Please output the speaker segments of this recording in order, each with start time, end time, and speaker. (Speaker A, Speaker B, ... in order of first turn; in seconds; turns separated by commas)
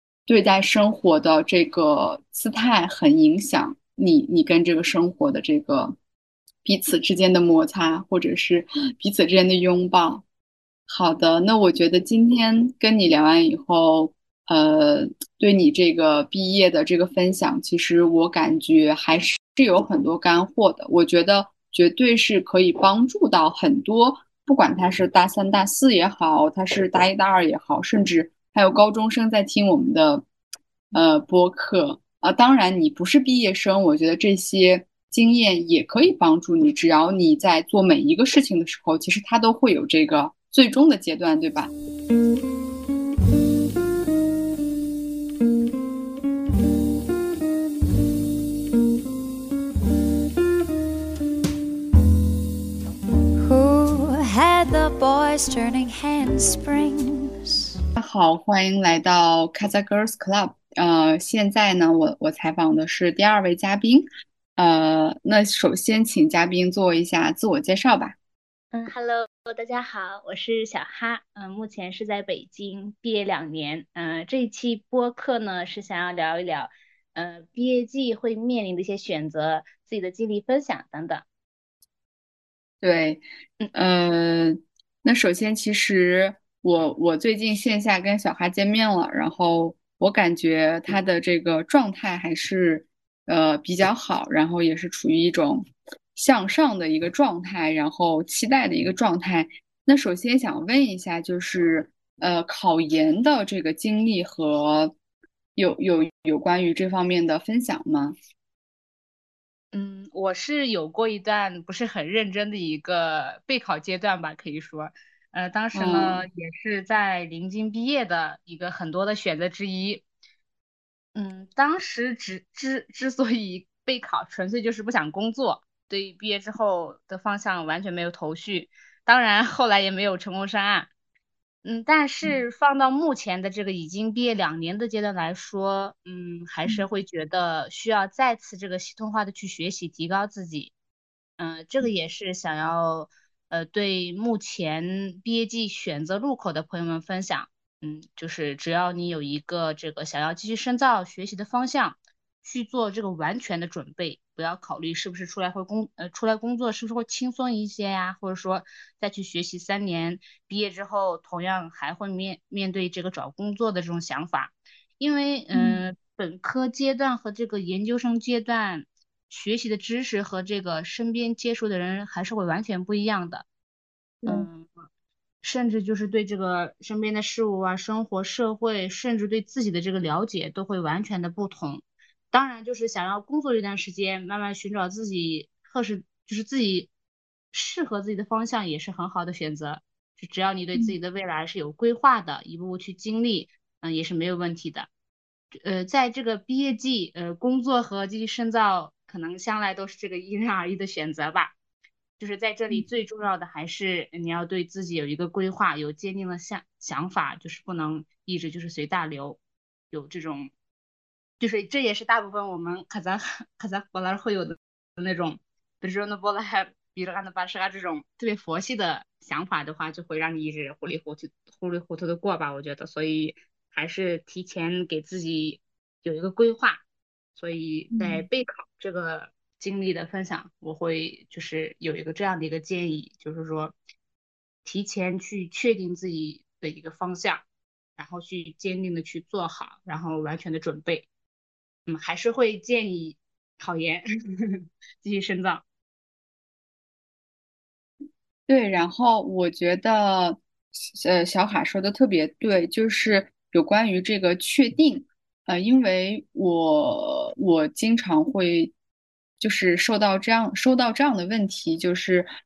Speaker A: 0.3-6.0, Speaker A: 6.6-10.2, Speaker A: 10.9-30.2, Speaker A: 30.9-41.7, Speaker B: 53.4-57.7, Speaker A: 58.0-68.2, Speaker C: 68.7-81.2, Speaker A: 82.8-83.2, Speaker A: 83.7-105.0, Speaker A: 105.6-108.2, Speaker C: 109.7-120.0, Speaker A: 115.7-116.2, Speaker C: 121.2-130.9, Speaker C: 131.6-140.7, Speaker C: 141.4-173.5, Speaker A: 165.5-165.8, Speaker A: 174.2-174.5, Speaker C: 174.3-174.7, Speaker C: 175.4-186.9, Speaker C: 187.5-194.9, Speaker C: 195.5-201.6, Speaker C: 202.2-209.4, Speaker C: 209.9-210.5, Speaker C: 211.4-226.8, Speaker C: 227.4-233.8, Speaker A: 227.9-228.3, Speaker C: 234.7-237.5, Speaker C: 238.0-241.1, Speaker C: 241.9-245.6, Speaker A: 248.5-258.7, Speaker A: 259.4-262.3